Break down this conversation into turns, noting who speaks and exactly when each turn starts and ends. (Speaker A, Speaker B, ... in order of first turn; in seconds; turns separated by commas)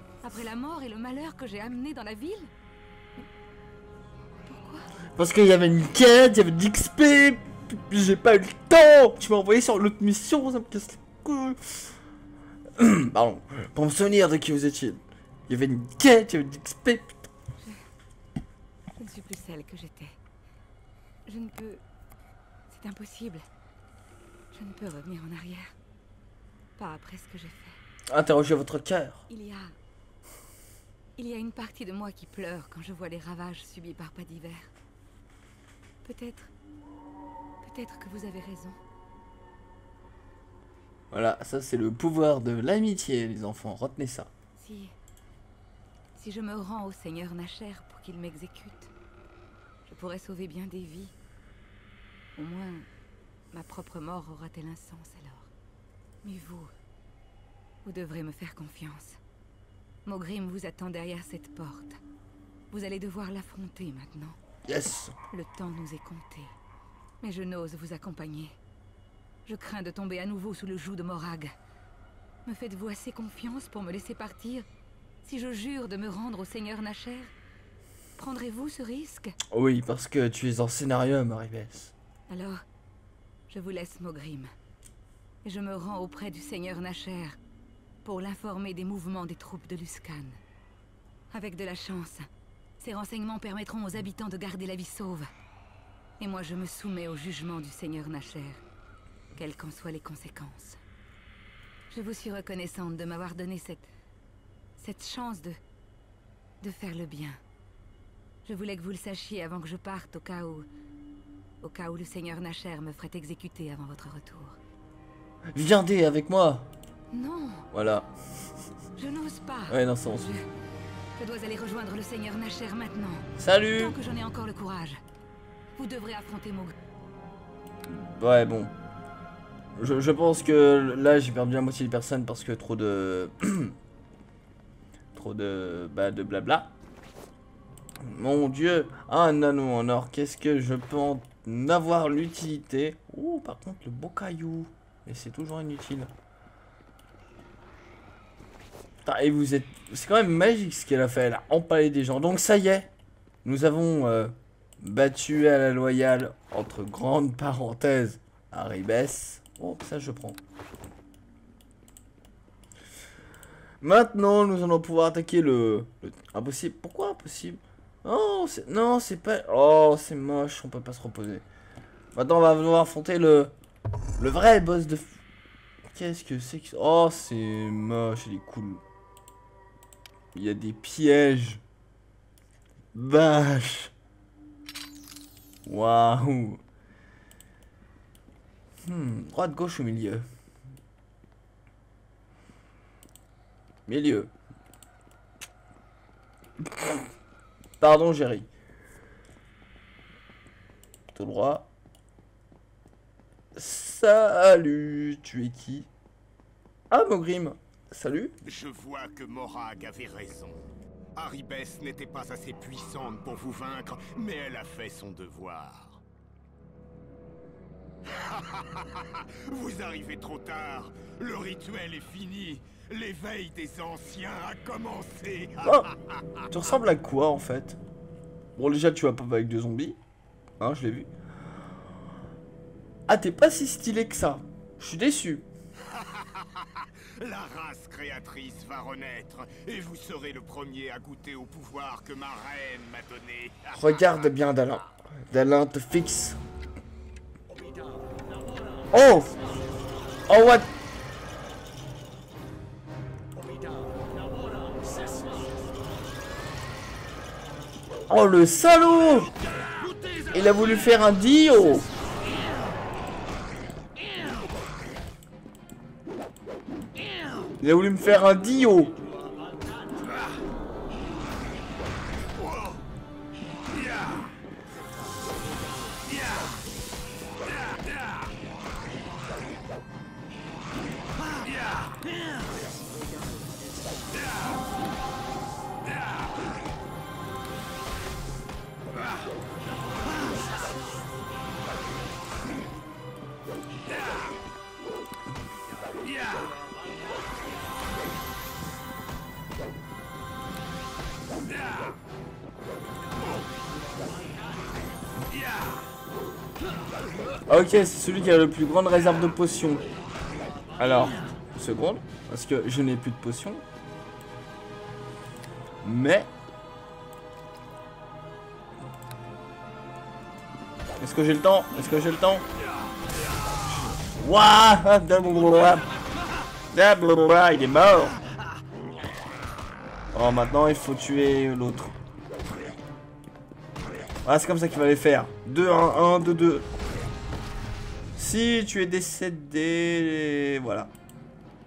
Speaker A: 0.2-2.5, Speaker A: 4.5-4.9, Speaker B: 5.2-11.8, Speaker B: 12.8-17.3, Speaker A: 19.0-20.2, Speaker A: 21.2-21.8, Speaker A: 22.7-23.4, Speaker A: 24.5-25.7, Speaker A: 26.8-27.8, Speaker B: 28.1-29.2, Speaker A: 29.3-29.7, Speaker A: 31.2-34.7, Speaker A: 36.0-36.5, Speaker A: 37.6-38.8, Speaker B: 41.1-44.3, Speaker A: 44.6-44.9, Speaker A: 46.1-48.9, Speaker A: 49.9-51.1, Speaker A: 52.4-52.9, Speaker A: 53.5-55.5, Speaker A: 56.2-56.7, Speaker A: 57.8-59.2, Speaker A: 60.0-62.0, Speaker A: 62.7-64.3, Speaker B: 64.7-65.2, Speaker A: 65.3-66.5, Speaker A: 67.2-68.5, Speaker A: 69.5-71.5, Speaker A: 72.5-74.7, Speaker A: 75.2-77.3, Speaker A: 78.2-79.3, Speaker B: 79.5-81.9, Speaker A: 82.3-82.6, Speaker A: 83.5-84.5, Speaker A: 85.4-87.4, Speaker A: 88.0-90.4, Speaker A: 91.3-92.3, Speaker A: 92.8-95.3, Speaker A: 96.2-98.6, Speaker A: 99.3-100.8, Speaker A: 101.9-103.8, Speaker A: 104.8-105.6, Speaker A: 106.6-107.4, Speaker A: 108.4-110.7, Speaker A: 111.6-114.6, Speaker B: 115.5-116.7, Speaker A: 117.1-117.7, Speaker B: 117.7-118.1, Speaker A: 119.0-120.4, Speaker B: 119.7-120.3, Speaker A: 121.2-125.0, Speaker B: 123.4-124.0, Speaker A: 125.8-126.7, Speaker B: 127.9-128.7, Speaker B: 129.8-133.7, Speaker B: 135.1-136.7, Speaker B: 138.0-146.1, Speaker B: 149.0-152.9, Speaker B: 153.4-160.4, Speaker B: 163.8-171.4, Speaker B: 172.1-173.5, Speaker B: 174.2-175.1, Speaker B: 175.9-178.8, Speaker B: 180.3-181.6, Speaker B: 182.9-183.9, Speaker B: 185.7-186.6, Speaker B: 188.8-190.2, Speaker B: 193.8-194.3, Speaker B: 196.6-197.1, Speaker B: 197.8-198.5, Speaker B: 201.1-201.7, Speaker B: 203.5-205.9, Speaker B: 206.9-208.3, Speaker C: 208.4-210.6, Speaker C: 211.1-216.0, Speaker C: 218.1-226.4, Speaker B: 225.6-225.9, Speaker B: 226.5-227.8, Speaker B: 228.6-230.0, Speaker B: 230.6-231.1, Speaker B: 233.1-235.5, Speaker C: 235.9-244.4, Speaker B: 243.7-246.4, Speaker B: 248.9-249.3, Speaker B: 250.3-250.7, Speaker B: 258.1-259.3, Speaker B: 260.3-261.9, Speaker B: 267.6-269.0, Speaker C: 272.4-272.7, Speaker B: 307.4-309.8, Speaker B: 310.8-313.6, Speaker B: 315.8-316.3, Speaker B: 321.0-322.4, Speaker B: 323.7-325.9, Speaker B: 326.7-328.2, Speaker B: 330.1-331.9, Speaker B: 334.2-336.7, Speaker B: 338.1-340.9